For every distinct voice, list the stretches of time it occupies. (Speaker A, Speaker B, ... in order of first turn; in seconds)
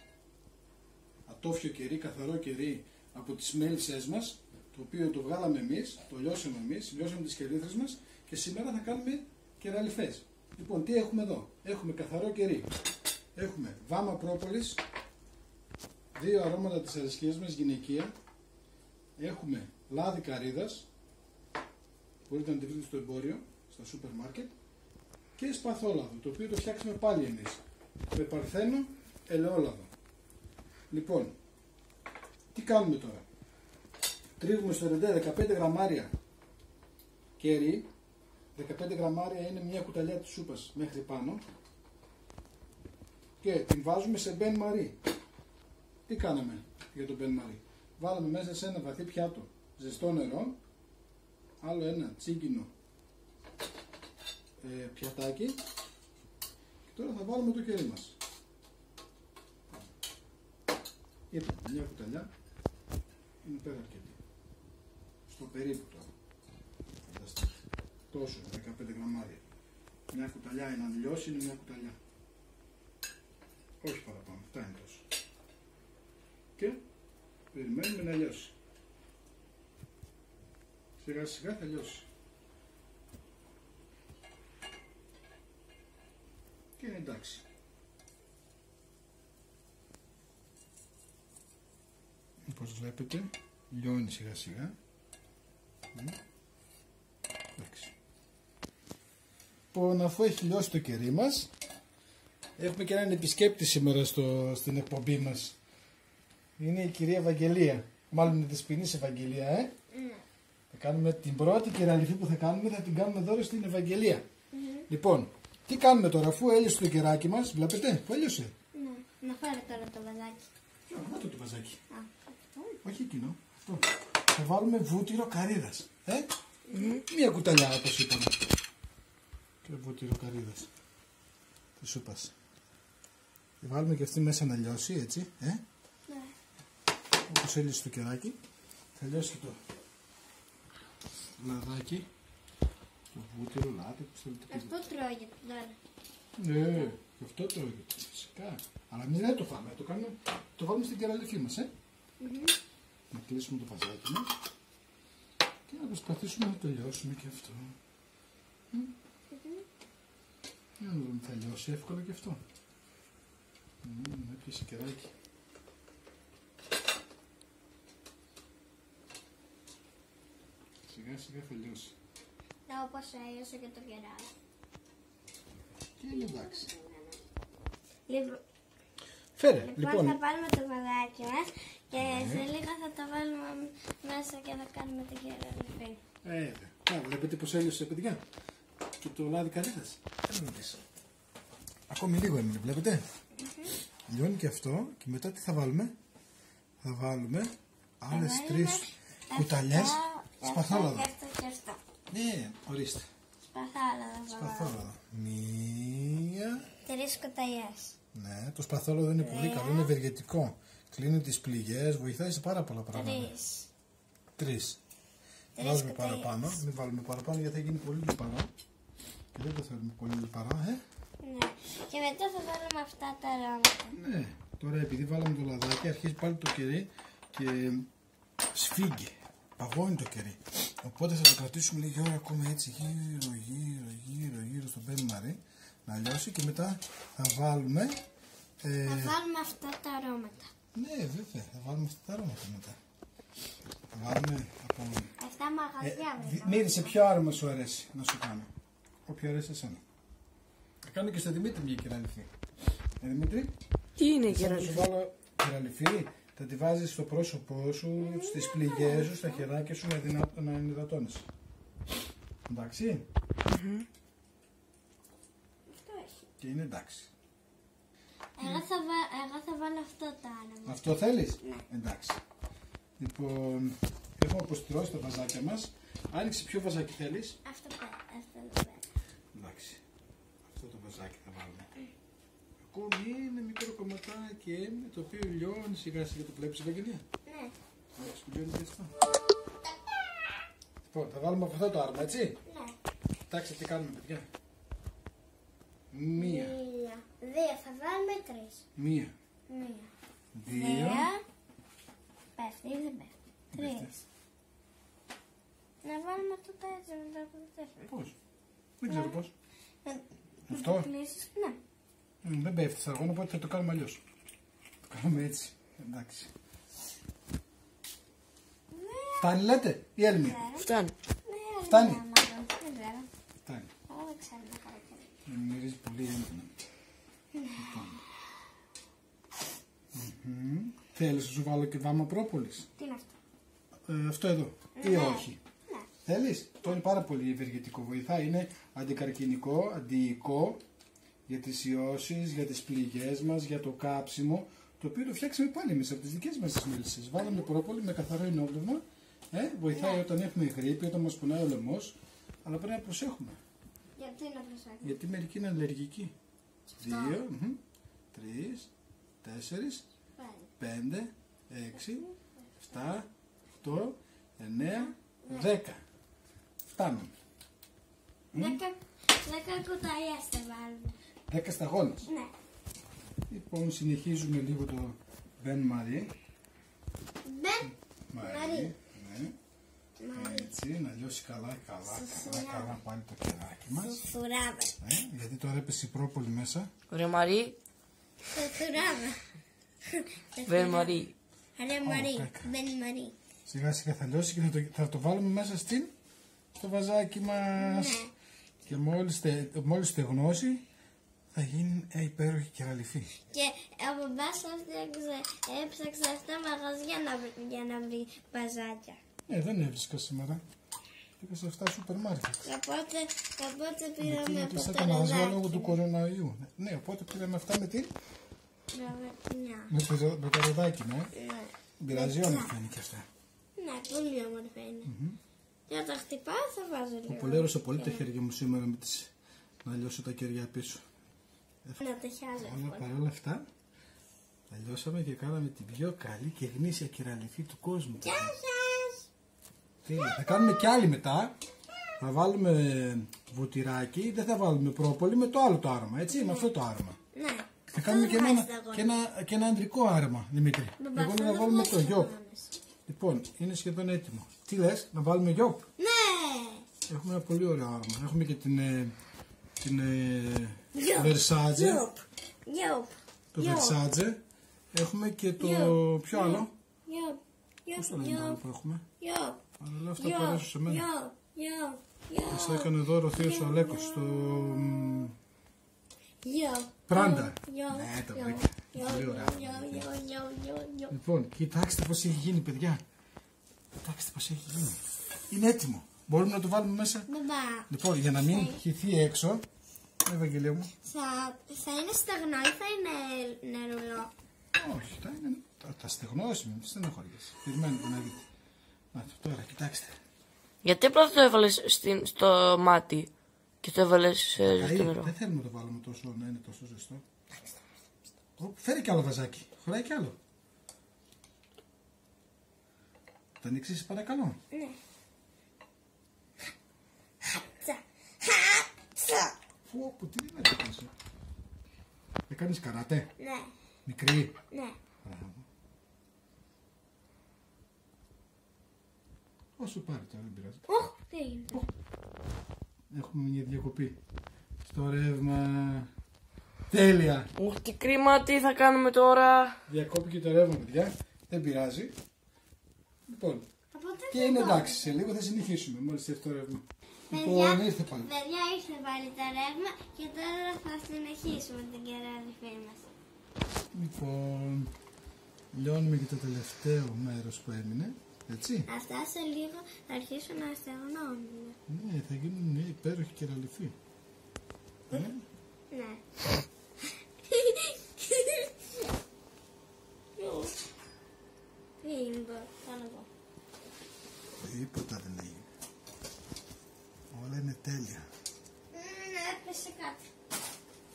Speaker A: 1.3-12.7, 13.3-14.8, 16.1-18.1, 19.2-20.9, 22.3-24.5, 25.4-29.9, 30.9-31.4, 32.5-33.2, 34.4-36.1, 37.4-37.9, 38.6-41.4, 43.4-45.0, 46.1-50.6, 51.6-52.7, 54.6-55.6, 56.9-58.2, 61.3-62.3, 63.4-64.2, 65.3-66.1, 67.0-69.4, 70.1-72.0, 73.8-75.0, 76.6-76.8, 77.5-78.5, 81.0-82.1, 86.8-87.5, 92.5-94.8, 97.6-97.9, 99.7-101.5, 102.6-105.6, 106.6-109.7, 110.7-114.2, 114.9-118.5, 120.9-121.8, 122.8-128.4, 129.6-130.7, 131.8-132.3, 133.6-135.6, 137.3-138.4, 139.0-139.6, 141.4-142.1, 143.1-144.7, 146.4-151.7, 153.1-154.3, 155.7-157.8, 160.8-162.4, 163.8-165.1, 170.9-171.9, 176.0-176.7, 179.4-180.2, 182.0-182.5, 186.2-188.2, 189.0-190.8, 191.9-193.1, 194.1-195.9, 196.8-201.1, 202.1-203.1, 204.3-206.7, 208.1-213.3, 214.4-214.8, 215.6-218.5, 219.3-220.8, 223.9-227.9, 228.5-238.0, 238.6-239.2, 240.7-242.8, 243.9-245.1, 245.8-248.5, 249.1-249.8, 250.8-252.3, 253.0-253.5, 254.2-261.3, 262.5-263.1, 266.4-267.1, 270.6-272.2, 273.0-277.4, 279.3-279.8, 280.5-281.7, 282.6-287.0, 287.9-288.9, 290.8-292.4, 293.3-294.3, 295.9-296.6, 298.8-299.1, 300.4-301.1, 303.5-304.0, 307.9-308.2, 308.8-309.3, 310.5-310.9, 312.2-314.0, 314.9-316.3, 319.2-320.4, 321.7-322.0, 325.3-326.6, 327.6-328.0, 329.9-332.7, 333.9-335.4, 336.0-340.6, 341.3-353.4, 354.8-356.1, 356.8-357.6, 358.1-358.7, 359.2-359.9, 360.6-362.1, 362.6-363.1, 363.6-365.8, 366.7-367.1, 368.3-368.6, 371.3-372.1, 373.3-376.1, 378.1-379.4, 380.1-384.0, 384.8-386.7, 391.8-392.5, 393.5-395.9, 396.6-398.0, 398.6-400.6, 401.3-403.1, 409.3-410.4, 411.2-412.5, 414.0-417.9, 419.7-421.1, 421.8-423.1, 424.9-425.2, 427.1-429.1, 429.6-430.8, 432.4-433.5, 434.5-438.4, 439.8-441.4, 442.0-447.0, 447.7-452.1, 452.9-455.7, 456.9-458.9, 459.6-461.9, 463.4-464.2, 464.7-466.5, 467.7-468.8, 469.6-470.9, 472.3-475.1, 476.9-479.9, 480.9-482.8, 483.8-487.1, 487.7-489.4, 490.0-490.7, 494.6-498.2, 498.9-500.0, 504.5-507.0, 508.4-510.2, 513.4-514.4, 519.7-520.9, 522.3-523.1, 523.9-524.4, 525.0-525.5, 529.6-530.7, 532.9-534.0, 534.6-535.9, 536.7-537.3, 539.7-541.9, 543.1-543.5, 544.1-548.1, 553.7-554.7, 555.5-558.7, 561.7-563.8, 564.9-565.2, 574.4-575.5, 577.1-578.1
Speaker B: 109.9-110.2, 114.5-114.9, 118.7-120.5, 121.9-122.8, 126.7-127.0, 136.1-136.3, 144.5-145.8, 152.2-152.6, 159.3-159.6, 172.7-174.3, 176.1-177.2, 178.1-178.4, 179.6-186.0, 193.4-193.8, 198.1-201.8, 203.4-204.9, 206.8-207.9, 209.2-209.9, 212.9-213.7, 215.6-216.6, 221.2-224.0, 238.8-240.5, 245.2-247.0, 258.0-259.4, 265.7-266.2, 268.4-270.9, 277.4-278.9, 287.3-287.5, 292.5-292.8, 296.2-298.6, 299.5-299.9, 300.5-301.2, 302.4-303.9, 305.8-307.9, 308.9-309.2, 309.9-311.6, 318.7-319.5, 320.2-320.7, 321.3-323.1, 323.9-325.1, 327.3-327.8, 332.8-333.1, 334.8-335.9, 347.2-347.5, 349.7-350.1, 354.0-355.0, 356.7-357.2, 360.2-360.5, 361.9-362.3, 364.8-365.5, 368.4-371.0, 372.1-372.3, 377.2-378.7, 380.0-380.6, 381.9-382.7, 383.8-384.8, 388.3-389.2, 389.9-391.1, 391.6-393.1, 397.6-398.1, 403.3-409.0, 412.4-415.8, 418.7-419.7, 421.1-422.5, 423.6-424.9, 425.7-428.1, 431.8-432.9, 438.0-439.1, 439.9-440.7, 446.1-446.5, 447.1-448.9, 450.8-452.5, 455.8-456.7, 460.8-463.8, 465.4-468.4, 469.0-469.4, 470.0-475.1, 476.2-480.9, 487.1-488.6, 490.8-494.1, 514.5-514.8, 517.2-519.4, 523.2-523.5, 524.5-524.8, 530.7-531.6, 543.7-544.9, 547.1-552.9, 558.7-561.6, 565.7-566.2, 566.8-568.9, 570.2-570.5, 571.8-573.1, 578.7-580.0
Speaker C: 254.0-254.8, 263.5-263.9, 320.6-320.9, 386.9-387.6, 390.5-391.1, 500.6-503.1, 503.6-505.1, 537.4-539.6